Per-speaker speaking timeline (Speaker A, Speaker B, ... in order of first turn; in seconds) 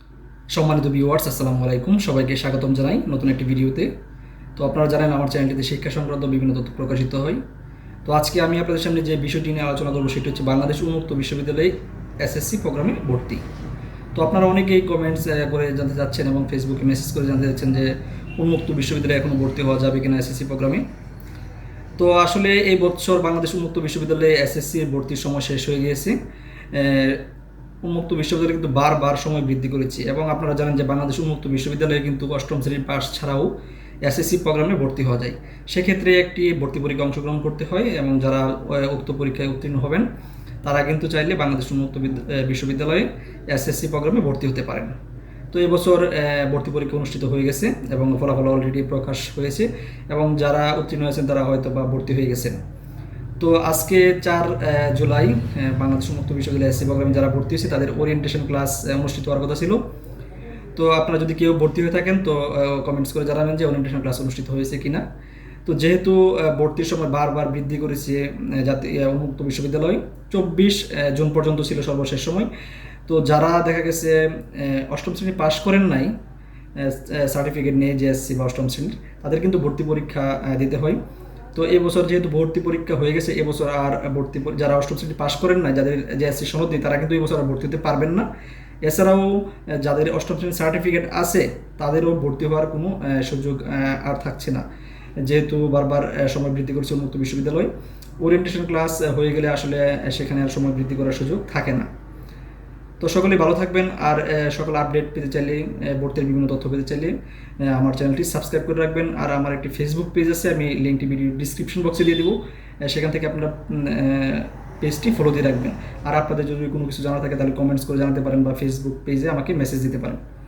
Speaker A: 0.5-3.9, 4.6-7.4, 8.1-13.4, 14.2-20.8, 22.0-26.2, 26.7-27.2, 27.8-33.5, 34.0-40.1, 40.6-45.0, 45.5-52.6, 53.4-59.8, 60.8-65.0, 65.7-72.5, 73.1-76.1, 76.8-81.0, 81.5-88.3, 88.8-94.6, 95.3-101.9, 103.0-107.2, 107.7-120.2